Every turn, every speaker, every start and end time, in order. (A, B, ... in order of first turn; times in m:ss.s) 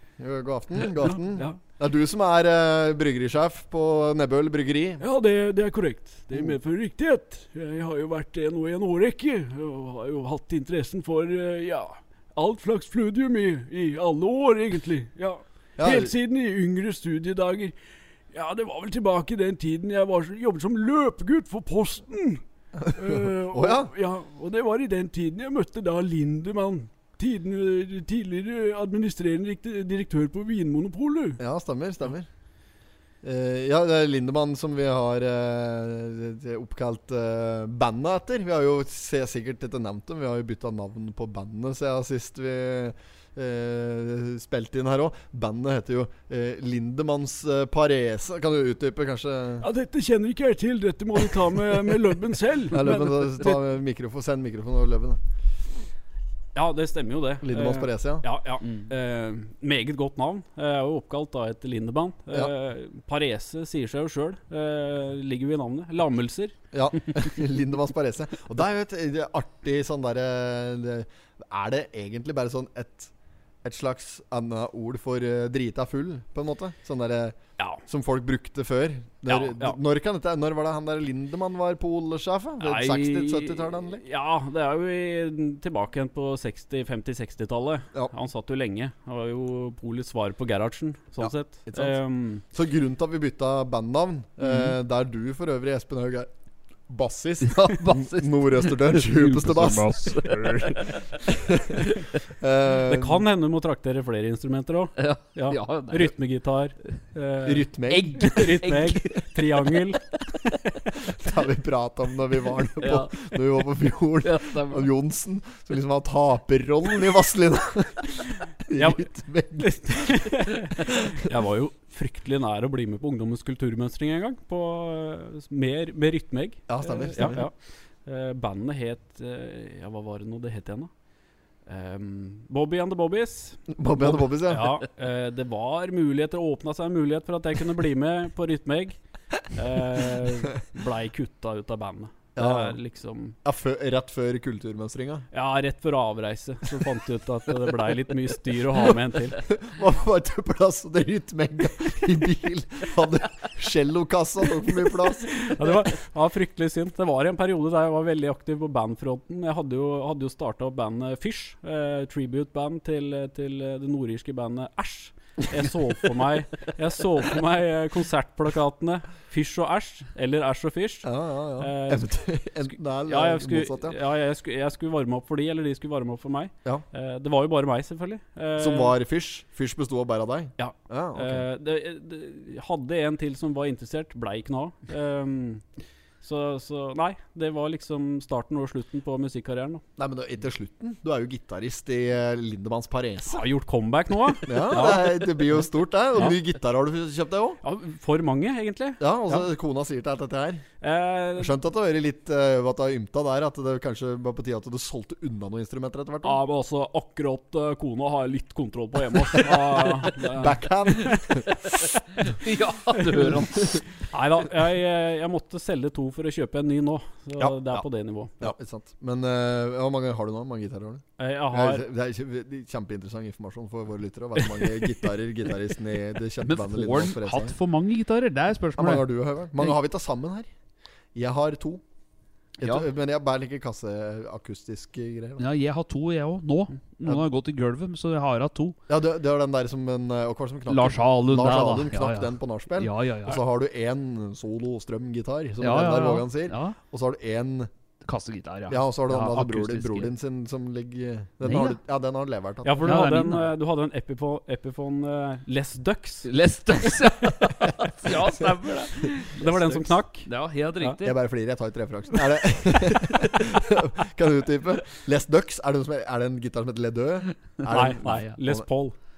0:00.2-0:05.0 A
0:00.9-0:01.6 B
0:05.0-0:17.7 B
0:15.8-0:16.1 A
0:18.3-0:22.4 B
0:22.8-0:23.9 A
0:22.9-0:31.4 B
0:31.4-0:32.2 A
0:33.2-0:49.7 A
0:49.6-0:53.6 B
0:52.7-0:55.2 A
0:56.5-1:06.5 B
0:57.4-0:58.2 A
1:06.7-1:13.1 A
1:13.6-1:24.0 A
1:19.3-1:19.8 B
1:22.6-1:32.4 B
1:31.2-1:32.0 A
1:32.5-1:36.3 A
1:36.9-1:43.2 A
1:37.4-1:41.2 C
1:42.8-1:50.0 B
1:45.0-1:46.1 C
1:47.4-1:48.4 A
1:47.9-1:49.2 C
1:51.0-2:00.3 A
1:52.8-1:53.3 C
1:54.2-1:54.9 C
1:58.8-1:59.1 B
1:59.6-2:07.5 B
2:06.7-2:07.5 A
2:08.0-2:10.9 B
2:11.6-2:23.4 B
2:13.7-2:14.7 A
2:22.4-2:22.8 A
2:23.4-2:25.2 A
2:25.3-2:29.4 B
2:29.4-2:35.7 A
2:35.4-2:51.1 B
2:51.0-2:54.0 A
2:51.6-2:52.1 B
2:53.1-2:59.0 B
2:58.6-3:01.4 A
3:00.6-3:05.6 B
3:06.2-3:09.8 B
3:10.0-3:13.4 A
3:13.3-3:15.3 B
3:14.4-3:17.6 A
3:17.6-3:19.5 B
3:19.0-3:20.6 A
3:20.8-3:21.5 B
3:21.4-3:26.4 A
3:26.2-3:31.2 B
3:30.3-3:31.5 A
3:31.6-3:33.8 C
3:33.0-3:33.3 B
3:34.1-3:38.4 B
3:37.4-3:37.8 A
3:38.4-3:47.6 A
3:41.2-3:41.8 B
3:44.4-3:45.0 B
3:46.4-3:49.8 C
3:48.8-3:50.5 A
3:51.1-3:51.8 A
3:52.6-3:55.4 A
3:55.4-3:58.8 C
3:58.9-4:07.7 A
4:00.7-4:03.4 C
4:05.6-4:06.8 C
4:08.0-4:10.1 C
4:08.7-4:12.9 A
4:11.4-4:11.8 C
4:12.6-4:16.3 B
4:12.8-4:13.5 C
4:16.2-4:21.2 C
4:19.2-4:21.0 B
4:21.0-4:28.6 A
4:27.7-4:28.9 B
4:28.0-4:28.3 C